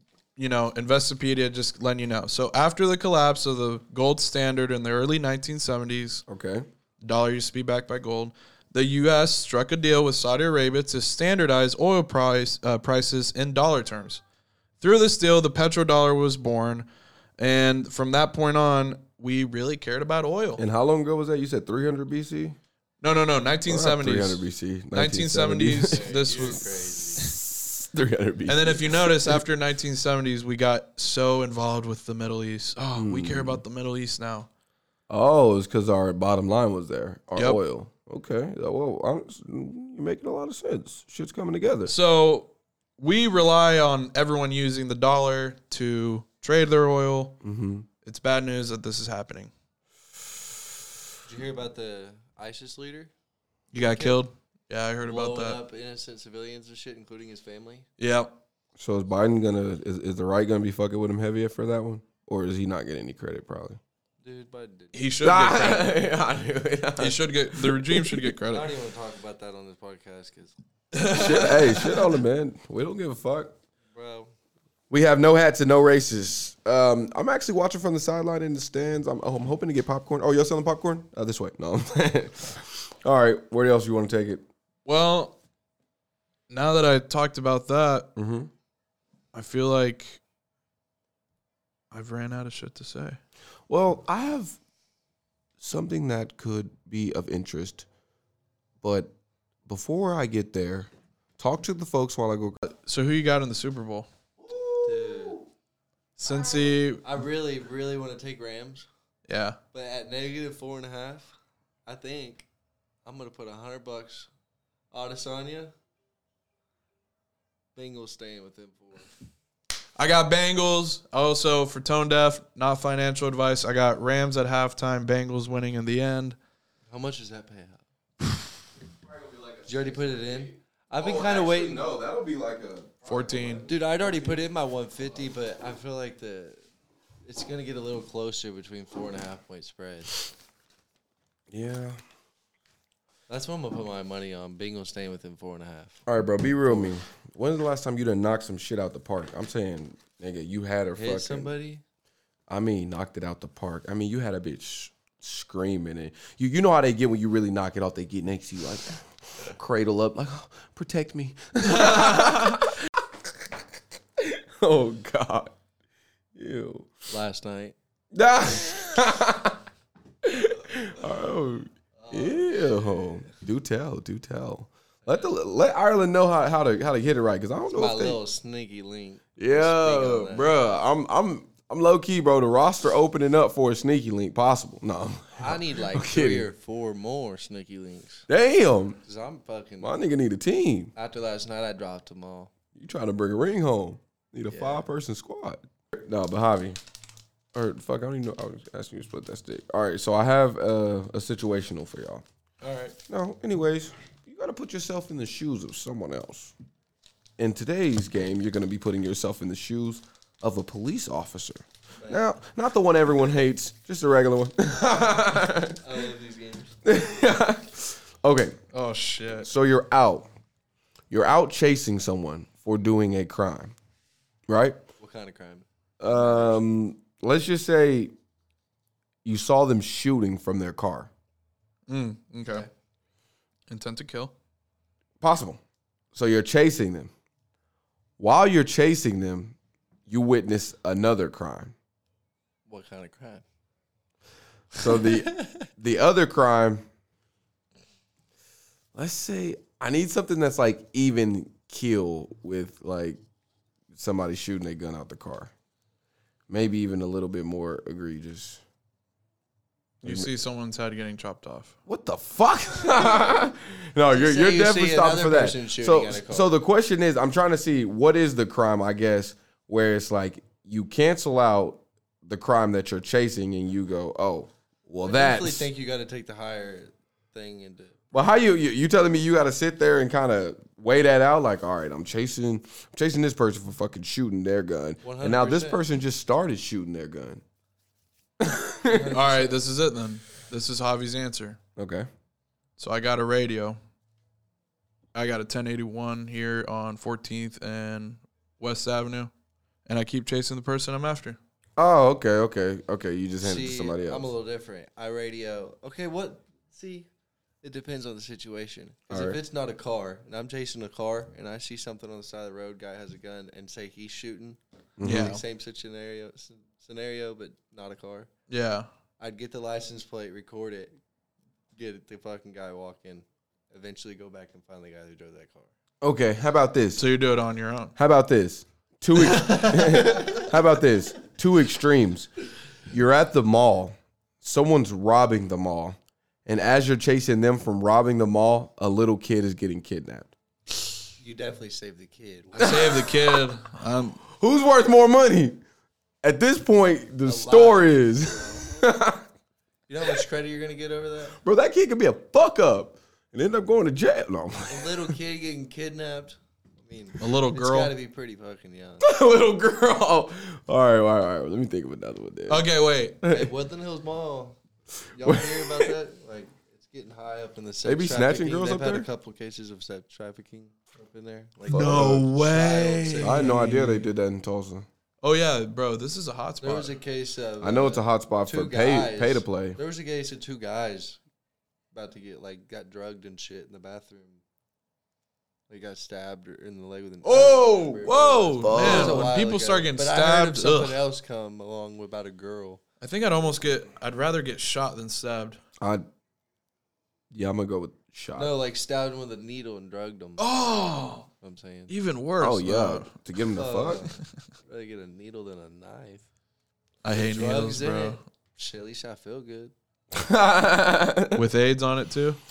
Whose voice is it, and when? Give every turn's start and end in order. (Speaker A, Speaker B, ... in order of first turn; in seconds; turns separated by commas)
Speaker A: 0.4-6.2, Speaker B: 6.3-6.7, Speaker A: 7.0-14.2, Speaker A: 14.8-16.9, Speaker A: 17.4-20.6, Speaker B: 20.6-22.6, Speaker A: 23.0-26.7, Speaker B: 23.7-26.0, Speaker C: 25.9-27.4, Speaker B: 27.2-29.4, Speaker A: 28.5-34.5, Speaker B: 33.0-33.6, Speaker B: 35.1-41.9, Speaker A: 41.9-47.4, Speaker B: 47.4-47.9, Speaker A: 48.0-49.5, Speaker C: 51.2-53.1, Speaker A: 53.7-55.6, Speaker C: 53.8-54.2, Speaker C: 55.0-57.9, Speaker A: 58.0-58.3, Speaker B: 58.8-63.8, Speaker C: 64.2-64.9, Speaker A: 64.9-66.1, Speaker B: 65.2-68.3, Speaker A: 67.0-68.7, Speaker C: 68.5-70.6, Speaker A: 70.9-72.1, Speaker B: 71.0-73.5, Speaker C: 71.2-71.6, Speaker C: 73.9-74.3, Speaker B: 74.9-84.5, Speaker A: 84.9-85.4, Speaker A: 86.5-88.1, Speaker B: 88.2-88.5, Speaker A: 89.3-90.2, Speaker A: 91.9-93.2, Speaker B: 93.7-94.6, Speaker B: 95.6-97.9, Speaker B: 98.8-99.1, Speaker B: 99.7-102.6, Speaker A: 102.7-104.1, Speaker B: 104.4-105.5, Speaker C: 104.8-105.4, Speaker A: 106.2-107.0, Speaker C: 107.0-108.9, Speaker A: 109.3-109.6, Speaker C: 109.7-111.3, Speaker C: 111.9-112.5, Speaker C: 113.0-114.3, Speaker C: 114.9-115.7, Speaker C: 117.8-119.1, Speaker A: 120.0-126.4, Speaker C: 126.9-127.8, Speaker B: 129.0-134.4, Speaker C: 129.7-131.9, Speaker A: 133.1-133.6, Speaker C: 133.7-136.6, Speaker C: 137.2-140.2, Speaker B: 141.5-142.0, Speaker C: 143.3-146.0, Speaker B: 146.1-151.5, Speaker C: 151.0-151.8, Speaker B: 152.5-162.8, Speaker A: 161.7-162.4, Speaker B: 164.2-165.5, Speaker B: 166.3-166.9, Speaker C: 167.1-167.8, Speaker B: 168.1-169.6, Speaker B: 170.2-178.2, Speaker C: 172.0-173.2, Speaker C: 175.1-175.3, Speaker C: 177.8-180.6, Speaker B: 179.4-186.5, Speaker C: 185.4-188.3, Speaker B: 188.3-189.0, Speaker C: 189.0-190.0, Speaker B: 189.8-190.9, Speaker C: 190.9-192.5, Speaker B: 192.8-196.8, Speaker C: 194.5-194.9, Speaker B: 197.5-202.2, Speaker A: 202.6-203.0, Speaker B: 203.1-206.5, Speaker B: 207.4-215.8, Speaker C: 215.8-216.8, Speaker B: 216.8-218.6, Speaker A: 218.7-219.5, Speaker B: 219.4-220.3, Speaker B: 221.1-223.7, Speaker B: 224.5-224.8, Speaker C: 225.0-226.7, Speaker B: 226.0-228.1, Speaker B: 229.2-231.1, Speaker A: 231.9-232.7, Speaker C: 232.4-232.7, Speaker A: 233.7-234.3, Speaker B: 235.2-235.6, Speaker B: 236.1-237.1, Speaker B: 238.2-239.6, Speaker B: 240.1-241.7, Speaker C: 242.7-243.4, Speaker B: 244.8-246.8, Speaker C: 244.8-245.6, Speaker B: 248.9-253.2, Speaker B: 253.9-255.5, Speaker B: 256.5-258.6, Speaker B: 260.0-260.3, Speaker A: 260.0-261.8, Speaker B: 261.9-275.7, Speaker C: 263.0-263.4, Speaker C: 264.1-266.6, Speaker C: 275.0-278.0, Speaker B: 278.1-287.4, Speaker C: 285.0-285.8, Speaker B: 288.4-289.1, Speaker C: 288.9-289.6, Speaker A: 289.1-291.6, Speaker B: 291.8-292.1, Speaker A: 292.8-293.8, Speaker A: 295.1-299.3, Speaker A: 299.9-301.4, Speaker B: 301.8-304.3, Speaker C: 303.4-307.1, Speaker C: 307.6-318.3, Speaker B: 309.1-309.4, Speaker B: 315.0-315.4, Speaker A: 315.0-315.4, Speaker A: 318.5-318.9, Speaker C: 319.2-321.0, Speaker C: 321.8-325.7, Speaker B: 326.0-327.1, Speaker A: 327.0-327.9, Speaker B: 328.0-332.3, Speaker B: 332.9-340.3, Speaker C: 341.2-343.1, Speaker A: 342.6-344.2, Speaker B: 342.6-343.1, Speaker B: 344.3-345.6, Speaker B: 346.2-349.2, Speaker C: 347.2-348.6, Speaker C: 349.9-351.4, Speaker B: 351.4-355.1, Speaker C: 354.7-359.1, Speaker A: 357.2-357.9, Speaker B: 359.0-362.7, Speaker A: 362.5-363.2, Speaker B: 363.2-363.5, Speaker C: 363.3-364.6, Speaker C: 365.1-373.6, Speaker B: 365.2-365.9, Speaker B: 367.8-369.1, Speaker B: 371.7-372.3, Speaker A: 371.7-374.1, Speaker B: 373.2-374.9, Speaker A: 375.2-376.9, Speaker C: 376.6-381.2, Speaker B: 377.6-379.8, Speaker C: 381.9-384.4, Speaker C: 385.7-392.8, Speaker A: 387.2-391.0, Speaker B: 388.6-389.3, Speaker A: 393.0-395.6, Speaker B: 395.8-396.1, Speaker B: 397.3-398.5, Speaker C: 398.4-400.4, Speaker A: 400.4-401.3, Speaker C: 401.4-401.9, Speaker A: 401.9-403.1, Speaker B: 402.4-404.1, Speaker C: 403.6-406.3, Speaker A: 407.0-408.2, Speaker C: 407.1-409.7, Speaker B: 410.1-411.4, Speaker A: 411.4-412.4